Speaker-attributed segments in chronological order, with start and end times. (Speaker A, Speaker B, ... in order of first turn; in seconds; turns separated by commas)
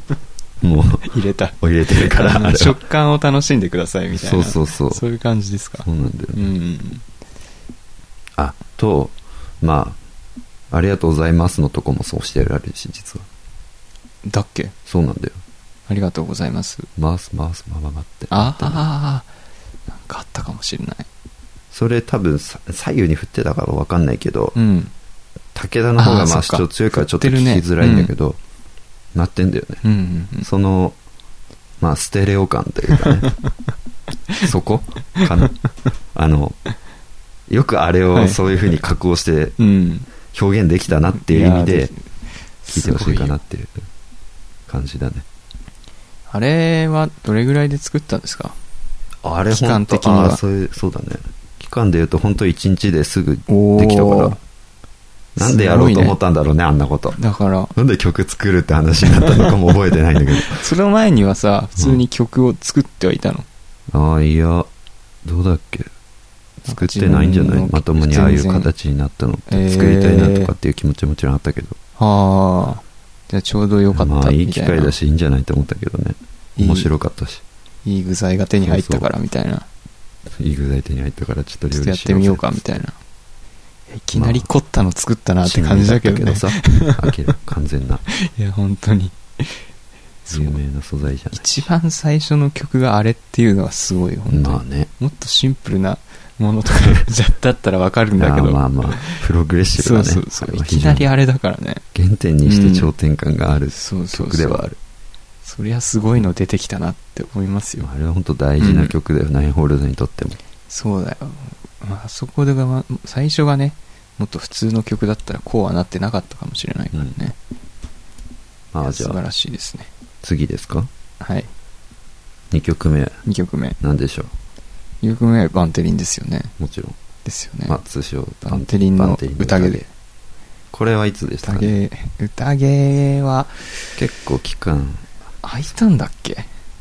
Speaker A: 0.6-1.1, Speaker B: 1.1-7.0, Speaker A: 1.6-2.8, Speaker A: 4.1-5.0, Speaker A: 5.8-6.5, Speaker A: 8.4-10.0, Speaker A: 10.7-13.2, Speaker B: 14.2-14.7, Speaker A: 14.8-15.4, Speaker B: 15.9-16.9, Speaker A: 17.0-18.8, Speaker B: 18.3-19.3, Speaker B: 19.9-21.1, Speaker A: 21.7-24.6, Speaker B: 24.6-24.9, Speaker A: 25.5-28.4, Speaker B: 26.0-28.1, Speaker A: 29.1-29.8, Speaker B: 29.8-30.5, Speaker A: 30.4-31.0, Speaker A: 31.8-33.3, Speaker A: 34.4-35.5, Speaker A: 36.1-36.6, Speaker A: 37.5-39.5, Speaker B: 38.1-38.4, Speaker B: 39.6-40.1, Speaker A: 40.3-41.9, Speaker B: 41.2-42.0, Speaker B: 42.6-43.4, Speaker A: 42.7-43.8, Speaker A: 44.7-45.2, Speaker B: 46.3-48.5, Speaker A: 49.2-54.4, Speaker B: 49.5-50.4, Speaker B: 53.5-54.4, Speaker A: 55.4-57.2, Speaker B: 55.4-56.1, Speaker B: 57.2-57.7, Speaker A: 57.7-60.6, Speaker B: 60.5-63.5, Speaker A: 63.9-64.7, Speaker A: 65.2-65.9, Speaker A: 66.6-71.8, Speaker B: 66.7-68.7, Speaker B: 69.5-70.5, Speaker B: 72.0-74.9, Speaker A: 73.9-77.4, Speaker B: 76.6-76.9, Speaker B: 77.8-79.7, Speaker A: 78.6-79.1, Speaker A: 80.3-82.7, Speaker B: 81.7-83.0, Speaker B: 83.9-87.0, Speaker A: 84.1-84.5, Speaker A: 85.4-88.0, Speaker B: 88.1-89.6, Speaker B: 90.2-90.6, Speaker A: 90.3-91.5, Speaker B: 91.3-99.2, Speaker A: 94.3-94.9, Speaker A: 98.2-101.1, Speaker B: 99.8-101.8, Speaker A: 101.9-104.8, Speaker B: 102.4-102.9, Speaker B: 103.7-104.7, Speaker B: 105.4-107.9, Speaker A: 107.8-110.4, Speaker B: 108.6-108.9, Speaker B: 110.7-117.3, Speaker A: 118.7-119.2, Speaker B: 118.8-119.9, Speaker A: 120.2-120.9, Speaker B: 121.2-121.5, Speaker A: 122.5-123.2, Speaker B: 123.2-123.8, Speaker A: 123.8-124.3, Speaker B: 125.0-126.5, Speaker A: 126.6-127.0, Speaker B: 127.2-127.8, Speaker A: 127.7-129.8, Speaker B: 128.4-129.9, Speaker A: 130.7-131.7, Speaker B: 131.4-133.6, Speaker A: 134.0-135.1, Speaker B: 135.4-136.5